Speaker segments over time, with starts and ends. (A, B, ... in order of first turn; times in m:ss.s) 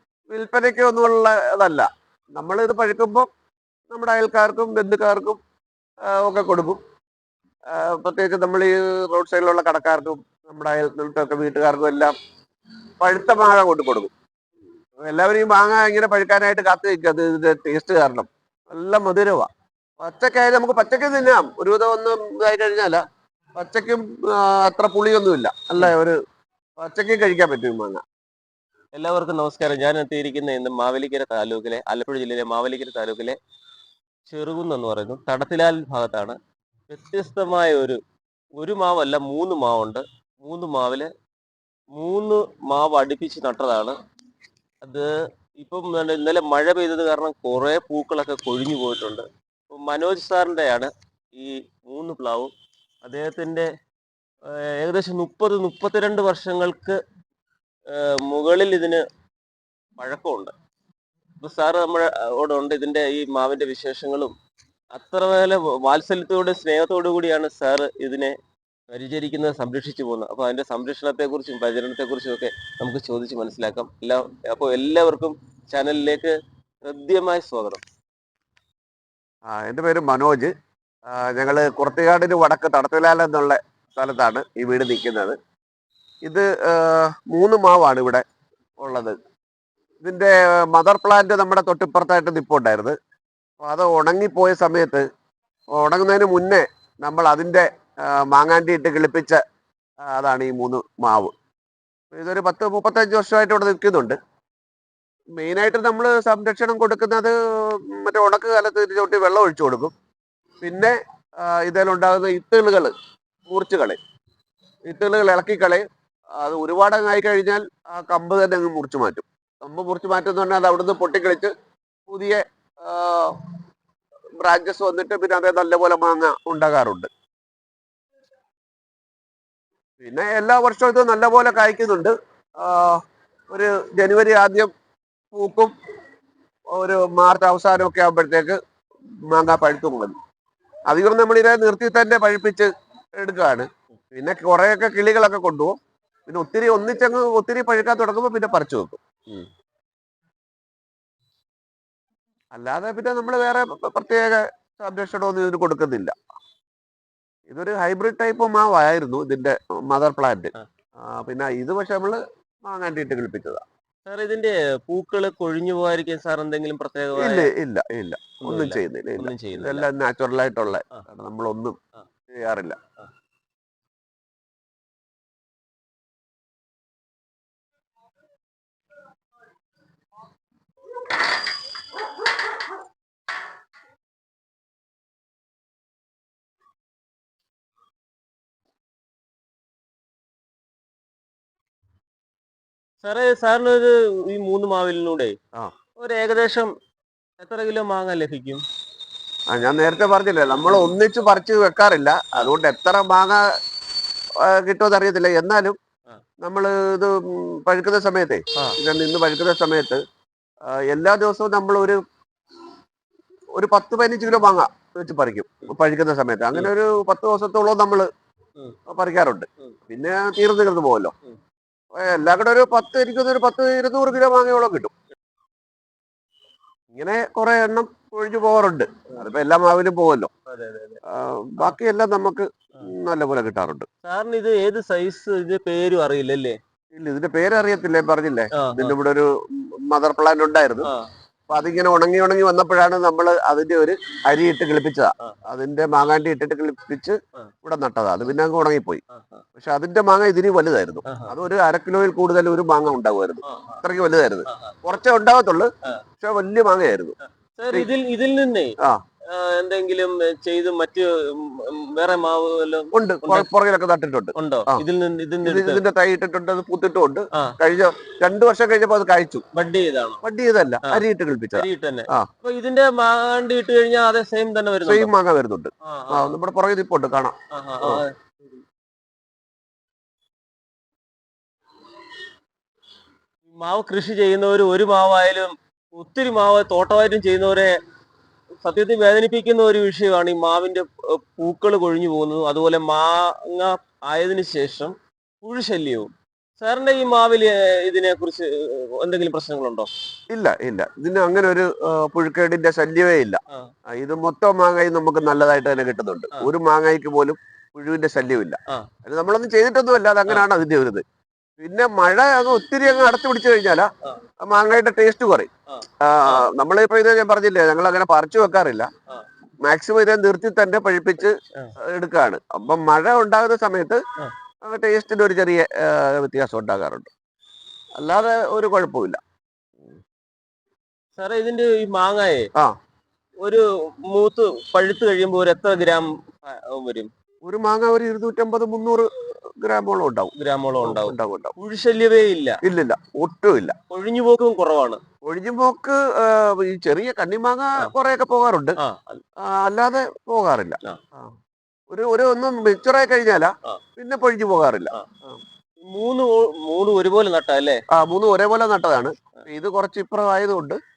0:00.3-0:03.3 A
0:03.9-0:05.4 A
0:06.0-0:06.8 A
0:07.7-0:12.1 A
0:13.0-0:14.1 A
0:15.0-0:19.5 A
0:20.0-0:23.0 A
0:23.6-0:26.2 A
0:26.8-0:28.0 A
0:28.9-0:33.4 B
0:34.3-0:36.4 B
0:36.9-0:38.0 B
0:38.6-0:41.1 B
0:41.9-0:43.9 B
0:44.8-0:52.5 B
0:53.0-0:53.7 B
0:54.5-0:57.0 B
0:57.9-0:59.0 B
1:00.0-1:00.5 B
1:01.4-1:04.3 B
1:04.9-1:08.3 B
1:08.9-1:16.3 B
1:16.9-1:17.8 B
1:19.5-1:20.5 A
1:21.1-1:25.4 A
1:26.2-1:28.2 A
1:28.8-1:29.2 A
1:30.0-1:32.9 A
1:33.6-1:35.0 A
1:35.7-1:39.4 A
1:40.1-1:41.3 A
1:42.1-1:44.2 A
1:45.4-1:49.9 A
1:50.6-1:52.9 A
1:53.5-1:54.0 A
1:54.9-1:55.8 A
1:56.4-2:01.5 A
2:02.1-2:03.4 A
2:04.4-2:07.1 A
2:10.0-2:14.7 A
2:15.3-2:15.7 A
2:16.7-2:18.6 A
2:19.3-2:20.1 A
2:20.9-2:22.7 A
2:23.2-2:25.7 A
2:26.3-2:29.5 A
2:32.5-2:36.1 A
2:37.5-2:40.5 A
2:41.0-2:43.6 A
2:44.0-2:47.5 B
2:47.2-2:51.8 A
2:48.4-2:49.9 B
2:52.3-2:52.8 A
3:13.0-3:15.3 B
3:16.0-3:16.7 B
3:17.4-3:18.6 B
3:19.5-3:23.4 A
3:24.4-3:25.8 A
3:26.4-3:30.0 A
3:30.7-3:32.0 A
3:33.5-3:38.1 A
3:38.9-3:41.1 A
3:41.9-3:44.9 A
3:46.9-3:50.3 A
3:50.5-3:51.0 B
3:51.1-3:53.9 A
3:54.0-3:56.6 B
3:56.9-4:00.9 A
3:58.6-3:59.0 B
4:01.5-4:09.0 A
4:09.1-4:09.4 B
4:09.6-4:15.7 A
4:11.1-4:11.3 B
4:13.4-4:13.8 B
4:14.5-4:14.7 B
4:16.2-4:17.1 A
4:17.6-4:18.7 B
4:19.3-4:23.5 B
4:22.9-4:24.8 A
4:24.4-4:25.8 B
4:25.4-4:29.4 A
4:29.5-4:30.2 B
4:30.2-4:32.3 A
4:31.5-4:35.1 B
4:34.8-4:38.0 A
4:35.8-4:36.4 B
4:37.5-4:38.1 B
4:43.5-4:47.8 B
4:48.6-4:59.9 B
5:00.3-5:11.0 A
5:11.6-5:13.9 A
5:14.4-5:15.5 A
5:15.7-5:16.4 B
5:16.0-5:18.9 A
5:19.6-5:24.0 A
5:24.6-5:27.1 A
5:28.0-5:29.2 A
5:31.2-5:32.5 B
5:33.4-5:37.1 B
5:37.4-5:39.1 A
5:39.6-5:41.5 A
5:40.3-5:42.6 B
5:42.6-5:43.8 A
5:43.9-5:45.0 B
5:45.2-5:48.8 A
5:48.8-5:49.2 B
5:49.4-5:51.3 A
5:51.9-5:55.4 A
5:55.8-5:57.8 B
5:57.9-6:00.8 A